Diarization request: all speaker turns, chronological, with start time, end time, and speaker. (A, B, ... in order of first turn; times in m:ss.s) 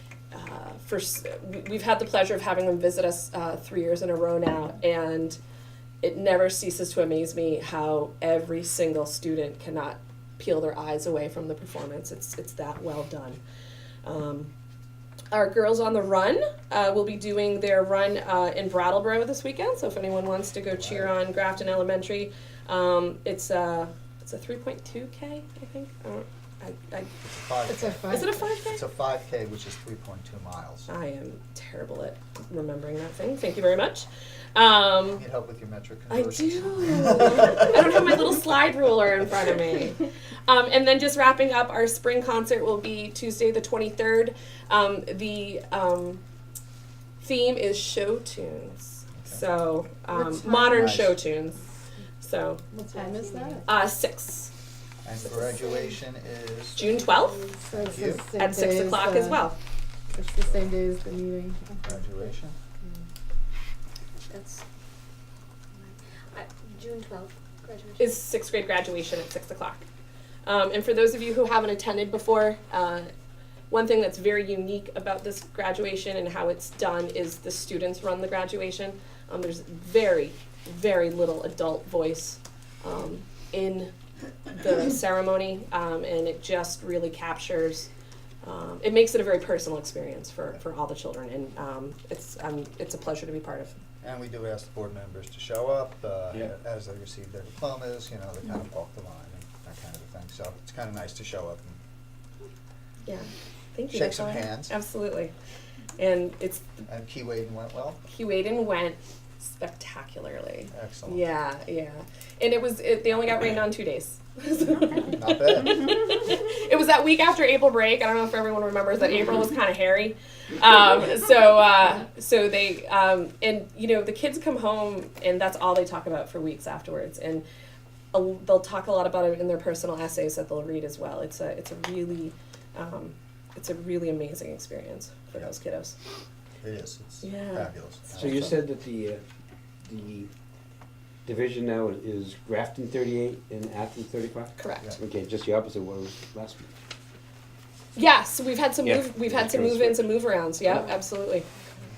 0:00.3-0:05.4 A
0:06.0-0:13.4 A
0:14.0-0:14.5 A
0:15.3-0:27.1 A
0:20.7-0:21.1 B
0:27.2-0:30.9 B
0:27.7-0:28.4 C
0:28.1-0:28.8 A
0:30.9-0:35.2 A
0:35.2-0:37.8 B
0:36.1-0:46.2 A
0:47.2-0:51.6 A
0:49.2-0:49.4 B
0:50.1-0:50.9 C
0:50.5-0:51.2 B
0:52.2-0:52.6 A
0:52.7-0:53.7 C
0:52.9-0:53.8 D
0:53.7-0:54.5 A
0:55.0-0:56.8 B
0:56.8-0:57.4 A
0:56.8-0:58.0 D
0:57.7-0:59.5 C
0:57.7-0:58.3 B
0:58.4-0:59.6 A
1:00.1-1:02.3 C
1:00.4-1:00.7 B
1:01.8-1:02.6 B
1:04.3-1:04.6 D
1:05.7-1:08.1 D
1:08.0-1:09.9 A
1:10.4-1:13.1 A
1:13.7-1:23.9 A
1:24.6-1:27.9 A
1:28.4-1:33.8 A
1:34.0-1:41.8 B
1:43.1-1:45.3 A
1:43.9-1:44.7 B
1:46.0-1:46.8 A
1:46.9-1:48.0 B
1:48.1-2:07.4 A
1:50.7-1:51.2 B
1:55.1-1:55.9 B
2:08.1-2:16.0 A
2:16.6-2:18.6 B
2:17.2-2:18.5 A
2:18.2-2:19.2 E
2:19.8-2:20.3 E
2:21.2-2:26.7 E
2:24.6-2:24.9 A
2:28.0-2:31.5 A
2:28.8-2:30.0 E